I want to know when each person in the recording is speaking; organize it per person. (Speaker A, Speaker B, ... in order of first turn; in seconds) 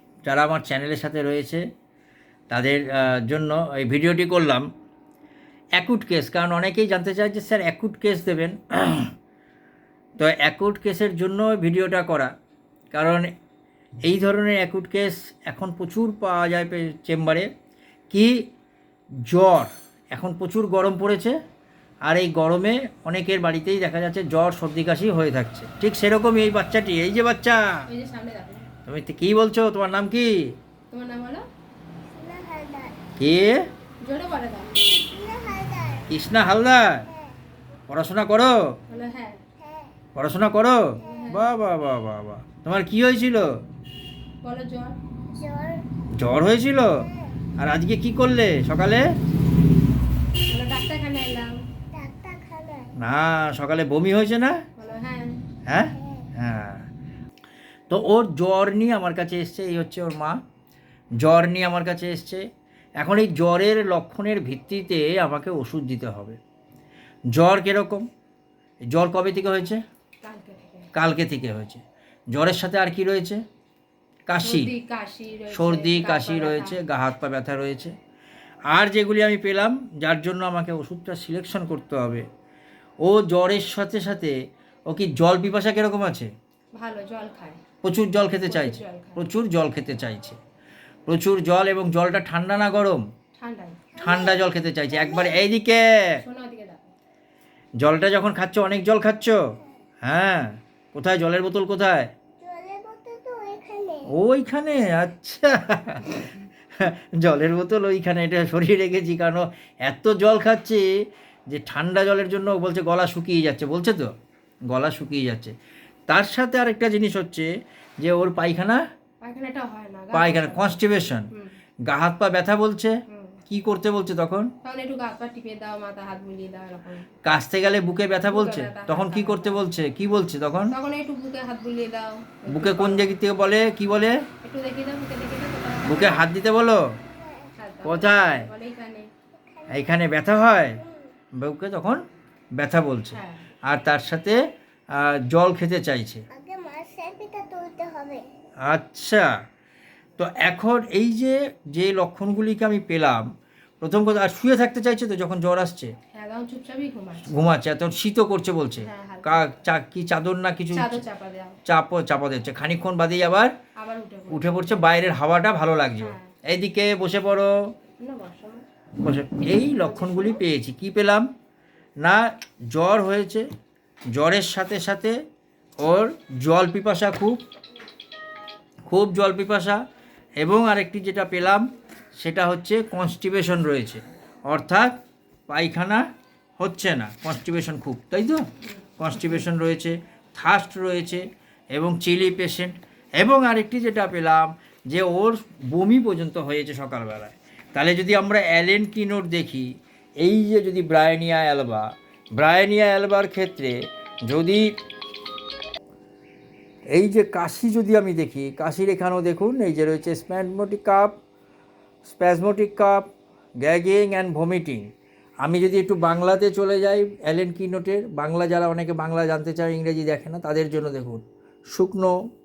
Speaker A: 0.2-1.6, 2.5-4.7, 5.8-9.1, 10.2-12.3, 12.9-13.3, 14.1-17.5, 18.1-18.4, 19.2-21.4, 22.1-27.9, 28.9-30.4, 33.2-33.6, 36.1-37.1, 37.9-38.6, 40.1-43.5, 46.1-47.0, 47.6-49.0, 53.0-54.6, 55.7-56.9, 57.9-60.4, 61.2-62.4, 63.0-66.4, 67.3-68.0, 68.9-69.8, 70.9-73.4, 74.3-74.7, 75.5-77.9, 78.7-82.2, 83.0-84.3, 84.9-86.3, 87.8-90.4, 91.1-93.0, 94.0-96.2, 97.8-102.1, 104.1-110.8, 111.5-114.1, 114.7-115.5, 116.1-117.5, 118.0-118.8, 120.1-121.3, 121.8-123.0, 123.5-124.5, 127.2-130.7, 132.5-134.2, 135.8-137.0, 137.8-138.5, 139.7-140.8, 141.3-142.0, 142.6-144.4, 144.9-146.2, 148.6-149.3, 150.2-153.2, 153.8-155.9, 157.2-161.0, 161.7-163.5, 164.3-167.6, 169.0-171.3, 172.0-173.4, 174.1-175.2, 175.8-177.4, 178.9-179.8, 180.4-181.7, 182.2-186.0, 186.6-188.4, 189.0-199.7, 200.2-204.7, 206.9-211.1, 212.0-213.0, 213.6-214.9, 215.4-221.2, 221.7-222.1
Speaker B: 27.9-28.7, 30.9-31.4, 34.0-34.7, 38.9-39.4, 41.0-41.5, 44.4-45.0, 50.5-51.6, 54.8-55.3, 70.2-70.9, 74.4-76.8, 86.8-87.6, 88.5-89.2, 93.3-93.8, 96.2-96.9, 119.2-120.8, 123.1-123.4, 124.6-127.1, 128.2-129.7, 130.7-133.1, 134.4-136.2, 137.6-139.1, 143.1-143.4, 156.1-157.3, 158.8-159.4, 160.7-161.6, 163.8-164.8, 166.0-166.3, 168.0-168.6, 169.5-170.4, 188.7-189.4
Speaker C: 32.1-33.0, 34.8-36.1, 45.4-45.9, 47.1-47.3, 51.9-52.9, 93.9-94.4, 94.9-95.5, 102.4-104.1, 139.4-139.9, 146.3-148.2